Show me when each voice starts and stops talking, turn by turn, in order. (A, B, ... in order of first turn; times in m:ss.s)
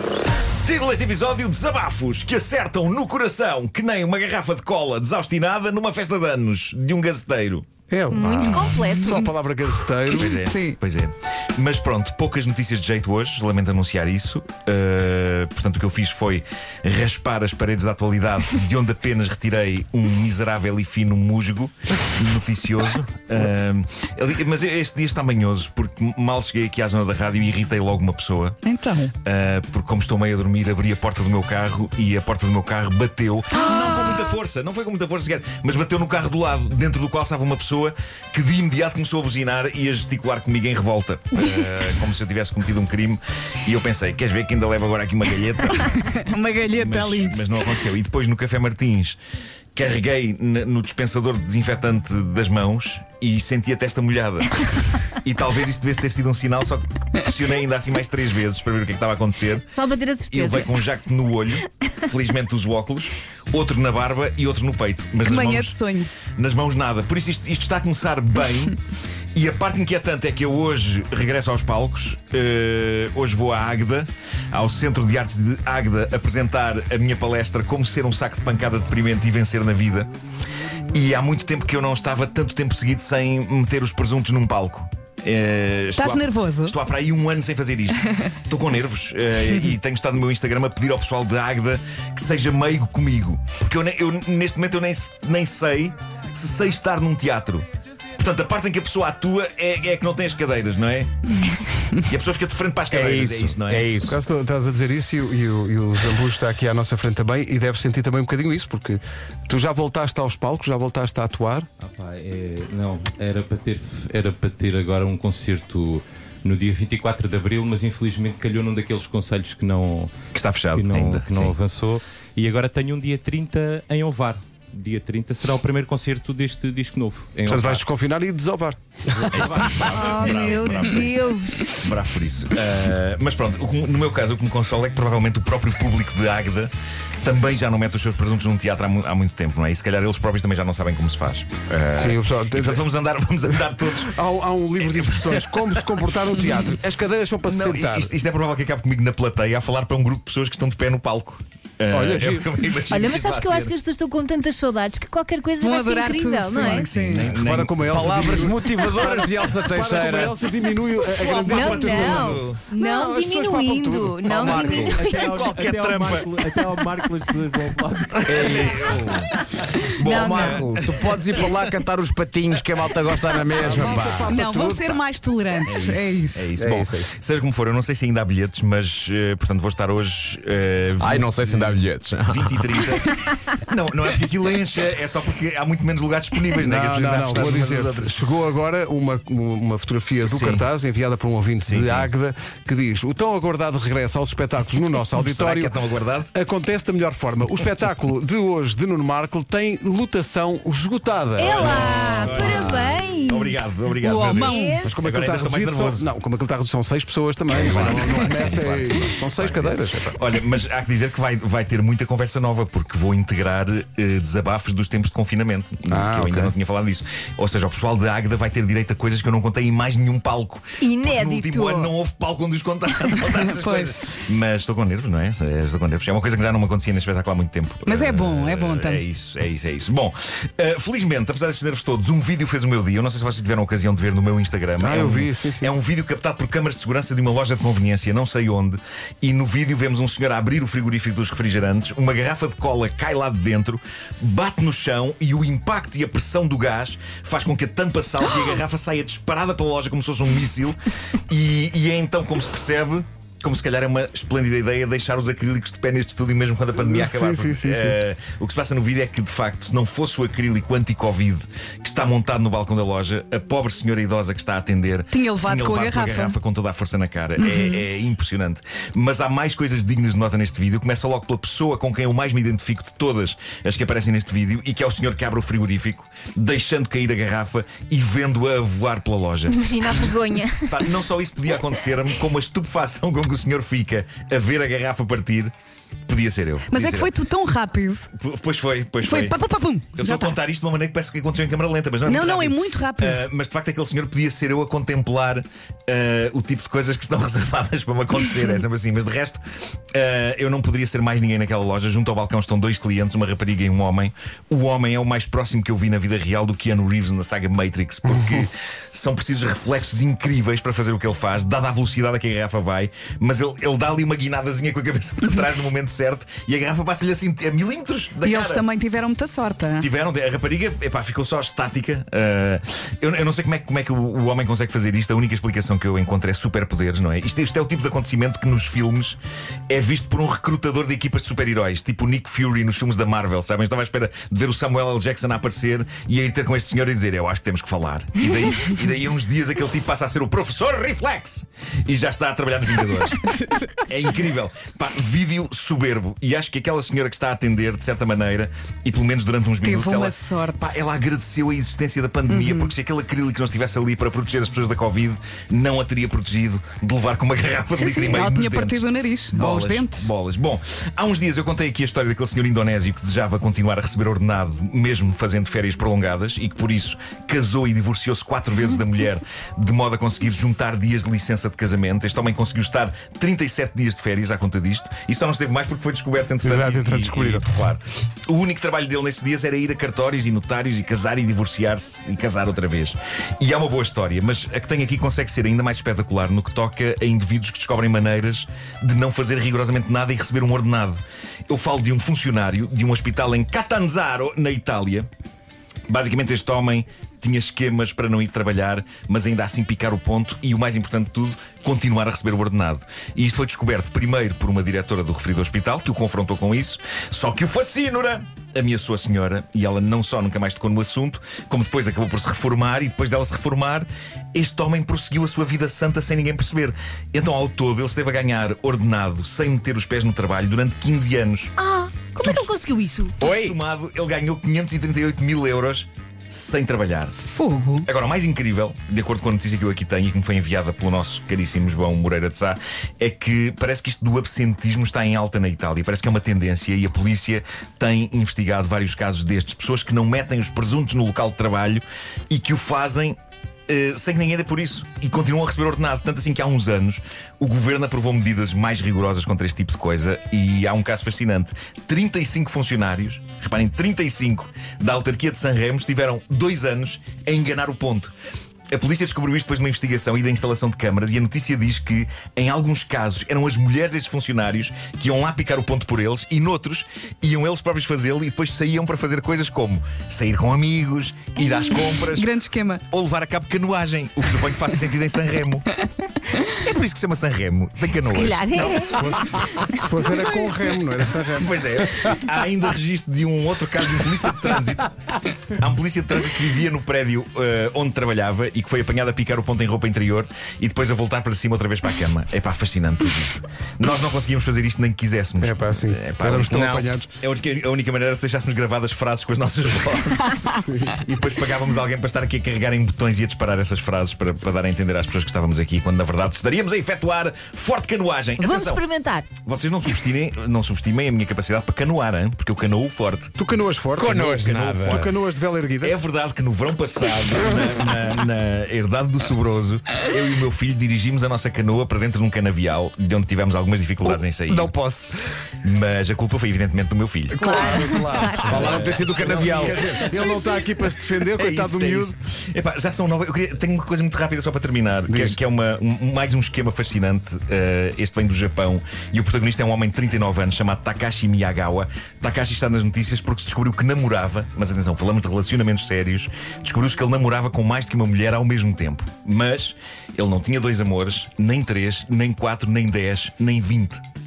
0:00.6-0:07.7 A
0:07.9-0:10.3 B
0:08.1-0:09.2 C
0:10.1-0:28.6 A
0:10.2-0:10.8 D
0:28.6-0:29.1 D
0:29.2-0:46.0 A
0:45.8-0:47.6 D
0:46.7-0:49.2 A
0:49.7-0:59.7 A
0:59.7-1:00.7 C
1:00.3-1:05.8 A
1:05.2-1:06.1 D
1:06.4-1:08.8 A
1:09.3-1:20.1 A
1:20.9-1:37.6 A
1:26.0-1:26.8 D
1:38.2-1:44.2 A
1:42.9-1:44.2 E
1:44.0-1:51.7 B
1:51.8-2:00.1 F
2:00.3-2:01.6 A
2:00.7-2:07.8 F
2:07.4-2:09.8 B
2:09.3-2:24.1 A
2:09.8-2:11.8 C
2:21.9-2:22.8 B
2:24.0-2:28.1 B
2:24.8-2:25.8 A
2:27.4-2:33.7 A
2:31.9-2:32.5 B
2:32.9-2:36.8 C
2:35.6-2:37.3 D
2:36.5-2:40.3 A
2:37.2-2:38.7 B
2:37.9-2:40.3 E
2:39.6-2:45.0 B
2:41.0-2:42.6 A
2:41.3-2:45.4 C
2:44.3-2:45.7 E
2:45.0-2:48.4 F
2:45.0-2:46.6 A
2:48.2-2:49.3 A
2:48.2-2:49.2 E
2:50.0-2:50.9 C
2:50.0-2:51.0 A
2:50.0-2:54.4 E
2:53.5-2:55.0 B
2:54.3-2:56.5 D
2:55.6-3:08.1 A
2:56.6-2:57.1 B
3:01.0-3:02.7 E
3:06.6-3:15.7 B
3:10.3-3:10.6 A
3:11.6-3:12.1 A
3:15.1-3:16.3 A
3:16.3-3:22.7 B
3:21.4-3:25.0 C
3:21.4-3:26.1 A
3:24.0-3:24.8 D
3:24.8-3:30.2 B
3:27.5-4:10.8 A
3:35.9-3:36.5 B
3:40.8-3:41.9 C
3:43.3-3:44.0 D
3:47.8-3:49.0 D
3:54.8-3:55.7 B
4:11.3-4:45.5 A
4:16.8-4:18.0 B
4:25.1-4:26.4 D
4:27.4-4:27.9 D
4:39.5-4:40.7 C
4:46.1-4:47.1 A
4:46.7-4:48.1 D
4:48.1-4:49.4 A
4:49.0-4:50.4 D
4:49.9-4:59.4 A
4:52.0-4:53.2 D
4:59.9-5:18.6 A
5:18.2-5:19.9 D
5:19.8-5:29.2 A
5:29.7-5:43.2 A
5:43.3-5:43.7 D
5:43.9-6:35.1 A
5:49.6-5:50.8 D
5:52.3-5:52.7 D
5:58.0-6:00.1 D
6:16.4-6:17.4 B
6:35.9-7:01.5 A
7:01.6-7:03.2 C
7:02.2-7:02.5 A
7:03.2-7:03.6 E
7:03.2-7:07.2 A
7:07.2-7:07.8 D
7:07.8-7:23.2 A
7:23.7-7:38.1 A
7:38.7-7:52.3 A
7:51.9-7:52.8 D
7:52.9-7:55.7 A
7:56.5-8:00.5 A
7:58.1-7:58.9 C
7:58.5-8:01.5 B
8:01.3-8:28.8 A
8:15.4-8:17.1 B
8:16.4-8:16.9 E
8:20.5-8:21.0 B
8:28.4-8:29.3 C
8:29.4-8:33.3 A
8:33.4-8:36.0 B
8:34.0-8:35.1 E
8:34.3-8:35.1 A
8:35.8-8:44.7 A
8:44.0-8:45.1 B
8:45.6-8:47.5 A
8:47.3-8:52.1 B
8:47.4-8:49.0 C
8:48.4-8:50.1 E
8:48.4-8:50.5 A
8:51.3-9:14.0 A
8:55.1-8:55.4 B